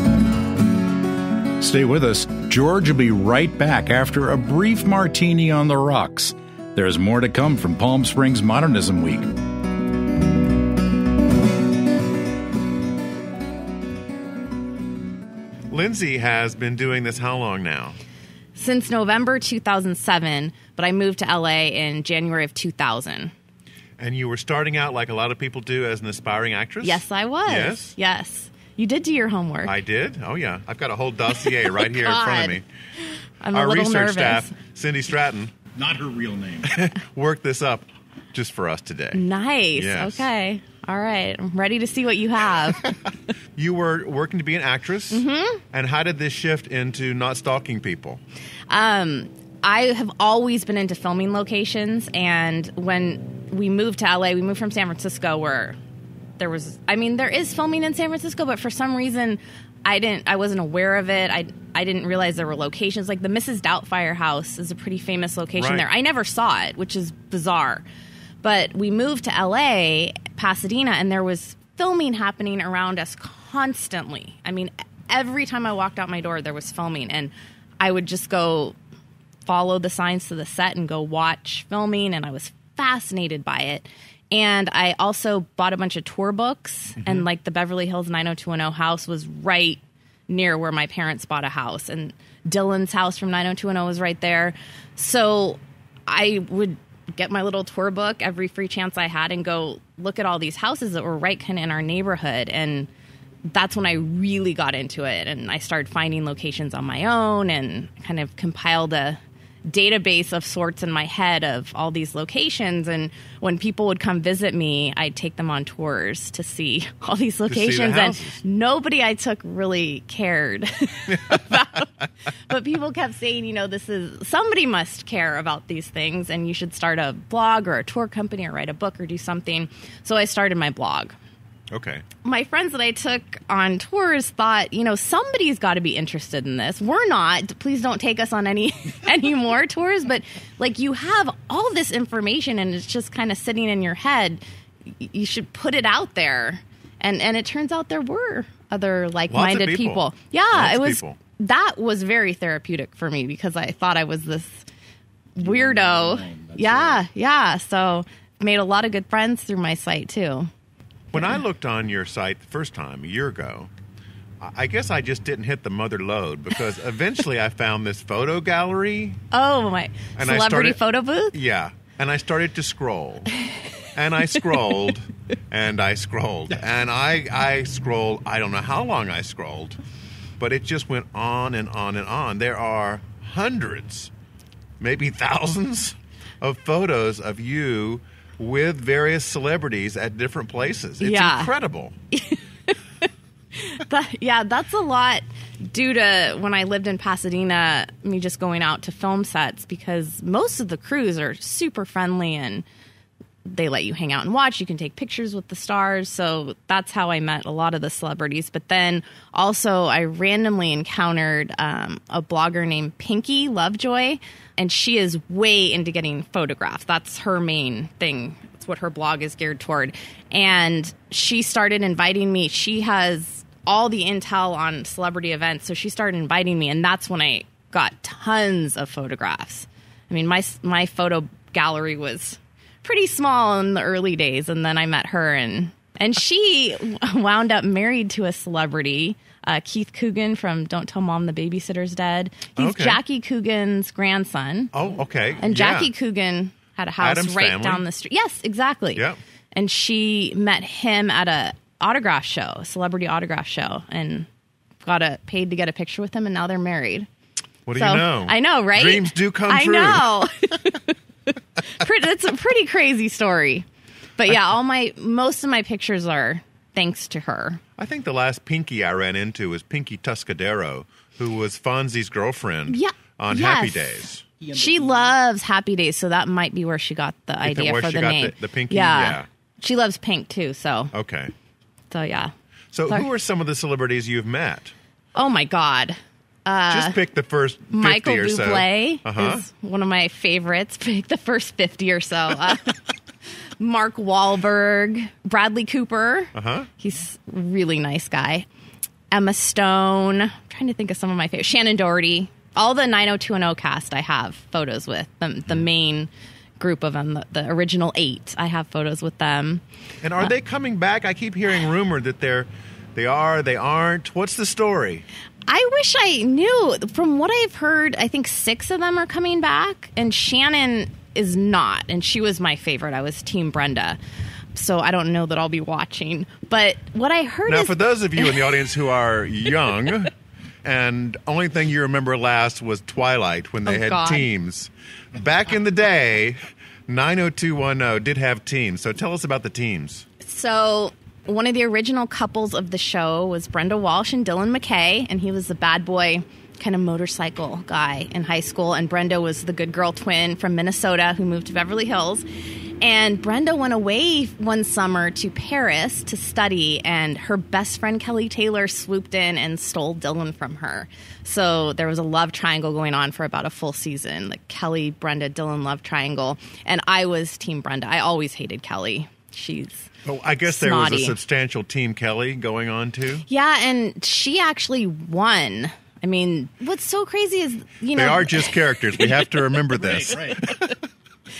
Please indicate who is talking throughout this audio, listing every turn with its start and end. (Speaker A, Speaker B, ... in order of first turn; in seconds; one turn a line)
Speaker A: 1.6-9.3
Speaker B: 15.7-18.0
Speaker C: 18.6-23.3
Speaker B: 24.0-27.9
Speaker C: 26.8-29.8
Speaker B: 29.6-32.6
Speaker C: 31.7-32.6
Speaker C: 33.4-34.5
Speaker B: 33.5-35.5
Speaker A: 35.8-36.8
Speaker B: 36.7-39.2
Speaker C: 39.1-42.9
Speaker B: 39.8-40.3
Speaker B: 43.6-48.2
Speaker C: 45.1-45.6
Speaker C: 48.7-55.8
Speaker C: 56.4-67.8
Speaker B: 65.6-65.9
Speaker C: 68.4-78.8
Speaker C: 79.5-102.9
Speaker C: 103.5-121.9
Speaker B: 117.5-118.4
Speaker C: 122.5-131.1
Speaker B: 131.7-132.1
Speaker C: 132.2-144.4
Speaker C: 145.0-154.6
Speaker B: 149.3-151.2
Speaker C: 155.4-160.5
Speaker C: 161.1-161.4
Speaker B: 161.1-163.7
Speaker B: 164.4-169.2
Speaker C: 169.3-171.3
Speaker B: 170.2-170.8
Speaker B: 171.3-173.3
Speaker B: 173.9-179.8
Speaker B: 180.4-184.1
Speaker B: 184.8-191.9
Speaker C: 191.0-191.5
Speaker C: 192.1-192.8
Speaker C: 193.6-202.6
Speaker C: 203.4-244.7
Speaker B: 242.6-243.0
Speaker B: 244.7-245.9
Speaker C: 245.4-254.3
Speaker B: 247.0-247.8
Speaker C: 254.8-257.1
Speaker B: 257.6-260.1
Speaker C: 257.8-263.6
Speaker C: 264.2-267.6
Speaker B: 267.8-274.3
Speaker C: 272.7-280.9
Speaker B: 277.4-279.3
Speaker B: 280.9-281.3
Speaker C: 281.9-282.3
Speaker B: 282.7-284.7
Speaker C: 285.1-287.0
Speaker B: 286.7-289.4
Speaker C: 287.7-292.8
Speaker C: 293.6-298.5
Speaker B: 296.3-296.7
Speaker C: 299.1-309.6
Speaker B: 310.0-315.1
Speaker C: 315.5-324.0
Speaker C: 324.6-328.5
Speaker B: 327.5-330.1
Speaker B: 330.6-340.1
Speaker C: 333.6-334.3
Speaker C: 340.2-352.3
Speaker C: 352.8-369.9
Speaker B: 370.1-373.2
Speaker C: 370.5-371.2
Speaker C: 373.3-379.2
Speaker B: 377.9-380.7
Speaker C: 380.1-380.7